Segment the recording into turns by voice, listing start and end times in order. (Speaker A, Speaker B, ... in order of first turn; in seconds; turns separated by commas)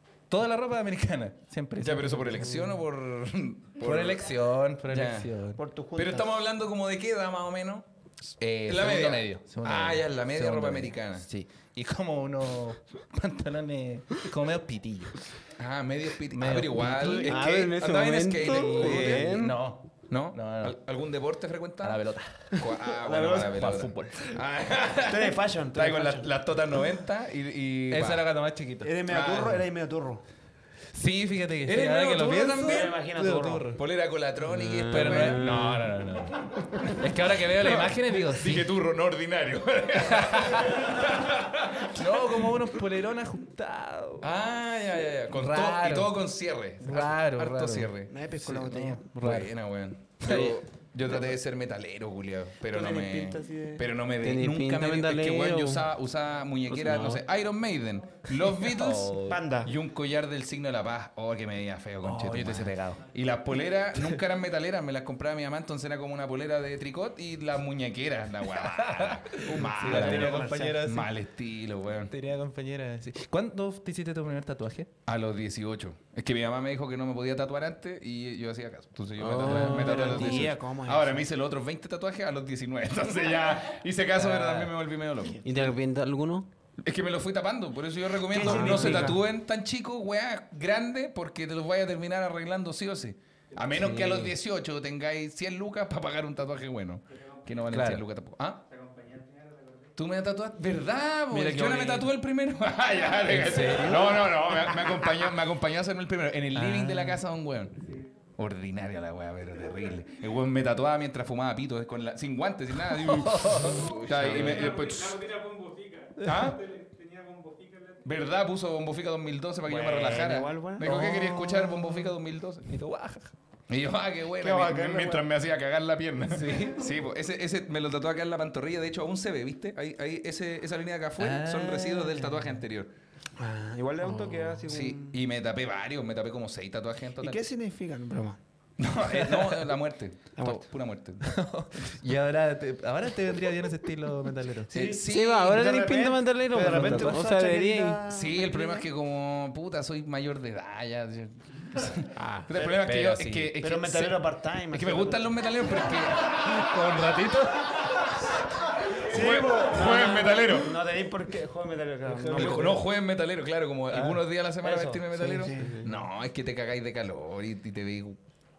Speaker A: 0.3-2.8, Speaker B: 1.8-4.3, Speaker A: 3.8-5.6, Speaker B: 4.9-5.3, Speaker C: 5.5-6.3, Speaker B: 5.9-7.8, Speaker A: 8.4-15.1, Speaker B: 8.7-11.2, Speaker B: 15.6-19.4, Speaker A: 16.3-17.3, Speaker D: 17.0-19.6, Speaker A: 18.4-20.8, Speaker B: 20.1-22.0, Speaker A: 21.8-22.6, Speaker B: 22.5-28.3, Speaker C: 22.9-23.9, Speaker A: 23.4-24.1, Speaker C: 25.0-26.3, Speaker A: 27.9-28.9, Speaker C: 28.8-30.2, Speaker B: 29.1-29.6, Speaker A: 30.9-33.8, Speaker B: 31.6-32.9, Speaker C: 32.6-33.7, Speaker B: 33.8-35.5, Speaker D: 34.5-35.9, Speaker A: 34.9-38.7, Speaker B: 37.6-42.5, Speaker A: 40.2-40.8, Speaker A: 41.9-44.3, Speaker B: 44.2-48.1, Speaker A: 45.3-46.1, Speaker A: 46.8-49.5, Speaker C: 48.1-49.1, Speaker B: 49.2-72.1, Speaker A: 50.2-50.5, Speaker D: 50.3-50.6, Speaker C: 52.7-53.9, Speaker D: 54.2-55.9, Speaker D: 56.7-57.2, Speaker A: 58.6-59.4, Speaker C: 59.3-59.7, Speaker A: 62.0-63.0, Speaker A: 68.5-71.1, Speaker C: 69.5-70.9, Speaker A: 72.1-74.9, Speaker B: 75.0-85.4, Speaker D: 79.2-80.4, Speaker A: 79.5-80.5, Speaker C: 79.6-81.2, Speaker A: 84.2-84.7, Speaker D: 85.4-86.5, Speaker B: 86.8-98.7, Speaker C: 88.3-89.2, Speaker D: 88.4-89.2, Speaker A: 97.7-98.0, Speaker B: 100.0-107.8, Speaker C: 101.3-102.1, Speaker A: 103.2-104.3, Speaker A: 106.5-107.2, Speaker B: 108.4-115.5, Speaker A: 112.8-114.5, Speaker D: 114.1-114.7, Speaker C: 114.3-114.5, Speaker A: 116.2-116.6, Speaker B: 116.2-116.8, Speaker B: 118.0-122.7, Speaker C: 119.7-121.0, Speaker A: 120.8-122.1, Speaker A: 122.7-123.3, Speaker B: 123.7-132.9, Speaker C: 124.4-125.3, Speaker A: 126.3-126.8, Speaker A: 131.2-132.4, Speaker C: 133.4-135.2, Speaker A: 134.1-134.6, Speaker B: 134.7-137.4, Speaker C: 137.2-138.4, Speaker B: 138.8-141.3, Speaker A: 139.0-139.7, Speaker C: 140.4-140.7, Speaker A: 141.2-144.7, Speaker C: 144.7-148.9, Speaker B: 144.7-145.6, Speaker D: 145.0-148.0, Speaker A: 146.6-147.2, Speaker B: 148.1-157.6, Speaker A: 152.6-153.5, Speaker C: 153.6-155.3, Speaker C: 159.0-162.8, Speaker B: 159.1-160.7, Speaker A: 162.1-162.8, Speaker B: 162.3-168.2, Speaker A: 163.9-164.2, Speaker C: 164.6-166.0, Speaker D: 165.6-165.8